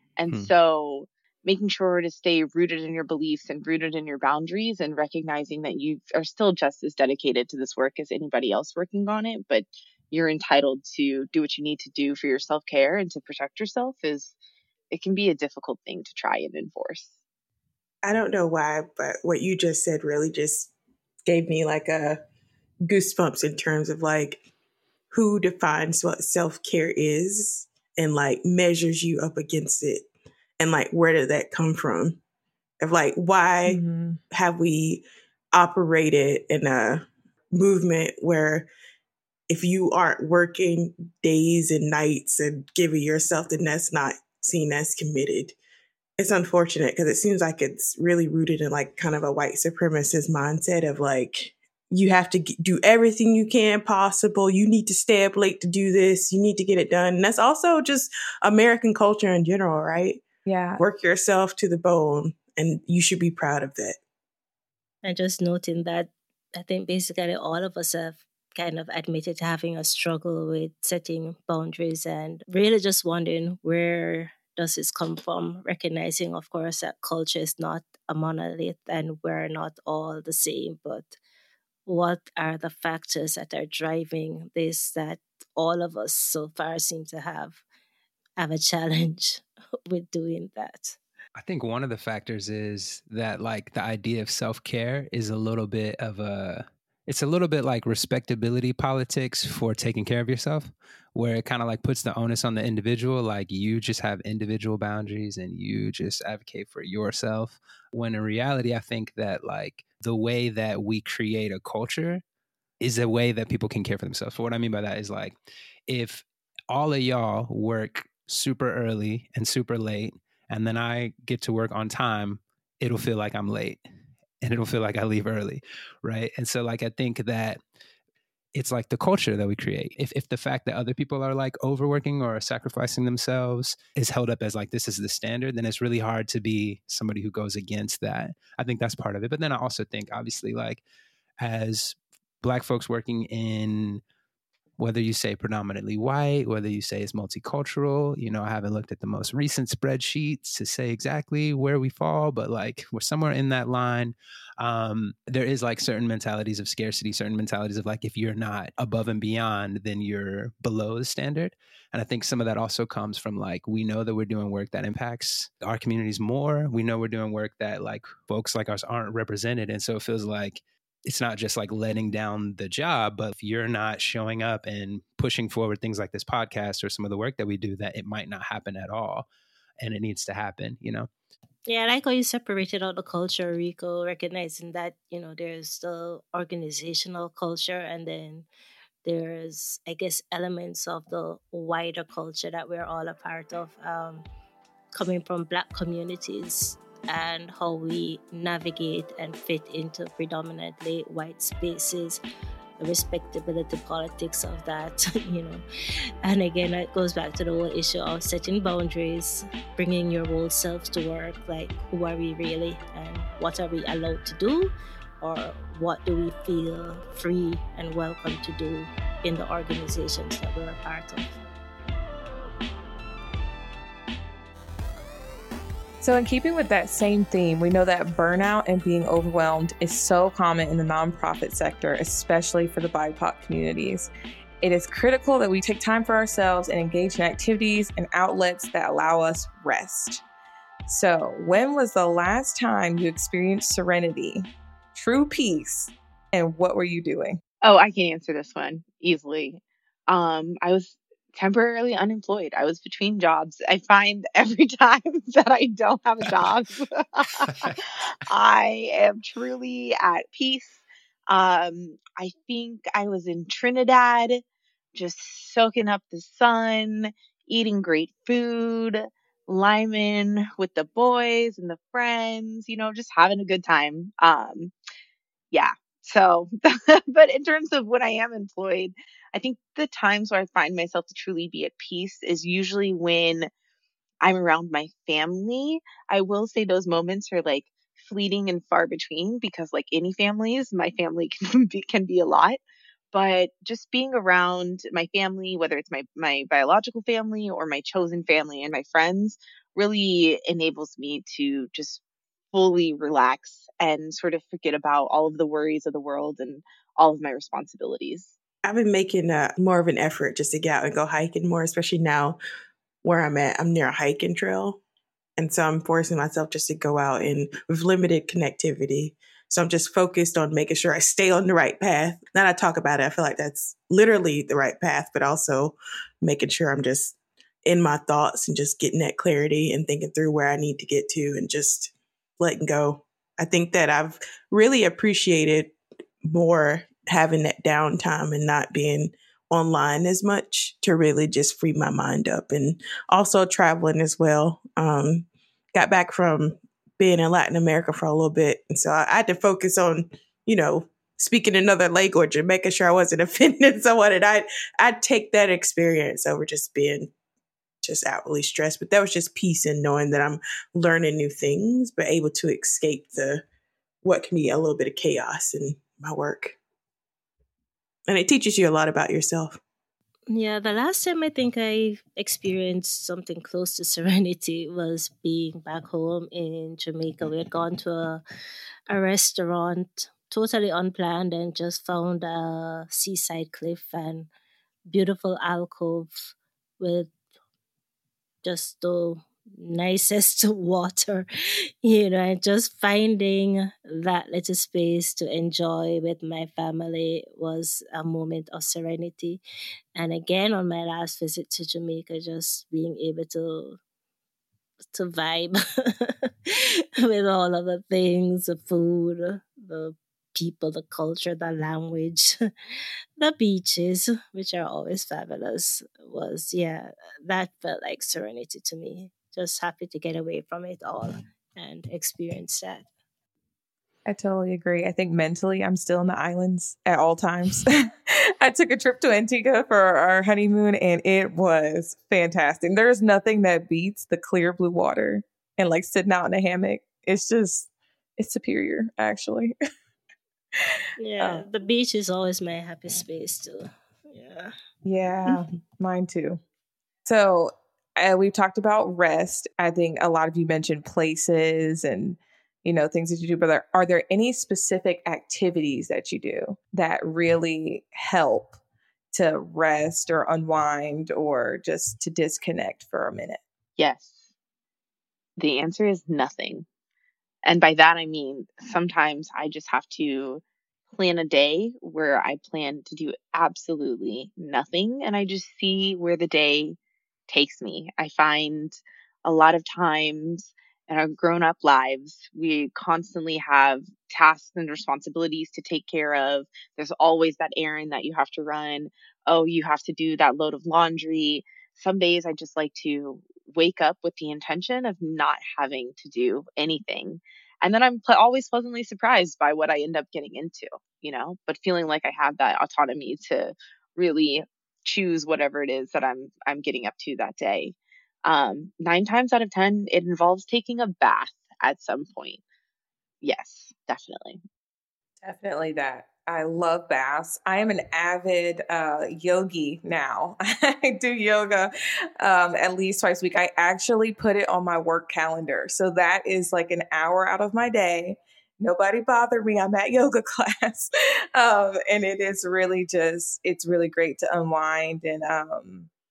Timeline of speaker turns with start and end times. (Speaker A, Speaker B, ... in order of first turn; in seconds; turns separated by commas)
Speaker A: 0.2-14.3, Speaker A: 14.9-17.1, Speaker B: 18.0-20.7, Speaker B: 21.3-22.2, Speaker B: 22.9-24.4, Speaker B: 25.1-30.1, Speaker B: 30.6-32.2, Speaker B: 32.8-33.8, Speaker C: 33.6-34.2, Speaker B: 34.3-38.7, Speaker B: 39.5-45.5, Speaker B: 46.2-60.2, Speaker C: 60.5-60.8, Speaker B: 60.8-64.0, Speaker D: 65.0-81.2, Speaker D: 81.8-87.6, Speaker D: 88.4-91.0, Speaker E: 91.3-112.2, Speaker E: 112.8-115.4, Speaker E: 115.9-123.8, Speaker E: 124.4-127.6, Speaker E: 128.5-140.8, Speaker E: 141.4-144.0, Speaker E: 144.8-179.3, Speaker E: 179.8-181.1, Speaker D: 181.7-188.5, Speaker D: 189.0-194.2, Speaker D: 194.9-202.2, Speaker D: 202.8-205.6, Speaker D: 206.2-221.3, Speaker C: 226.0-234.1, Speaker C: 234.6-240.2, Speaker C: 240.9-247.4, Speaker A: 247.6-264.4, Speaker E: 257.4-257.8, Speaker A: 264.9-274.7, Speaker A: 275.5-283.5, Speaker A: 284.2-292.6, Speaker A: 293.1-302.0, Speaker A: 302.5-308.3, Speaker B: 308.6-312.4, Speaker B: 313.0-314.8, Speaker B: 315.4-357.1, Speaker B: 357.8-363.4, Speaker B: 364.0-366.6, Speaker B: 368.1-369.6, Speaker D: 370.3-378.2, Speaker D: 378.9-384.3, Speaker D: 384.9-387.1, Speaker D: 388.4-391.2, Speaker D: 391.8-399.4, Speaker D: 399.9-403.8, Speaker D: 404.9-412.4, Speaker D: 413.2-422.9, Speaker C: 424.1-439.5, Speaker C: 440.6-441.4, Speaker D: 441.0-444.5, Speaker C: 444.8-446.4, Speaker C: 447.1-458.6, Speaker C: 459.1-463.4, Speaker A: 463.8-464.2, Speaker A: 465.4-466.6, Speaker A: 467.4-476.8, Speaker A: 477.3-512.4, Speaker A: 513.2-514.4, Speaker C: 515.2-535.9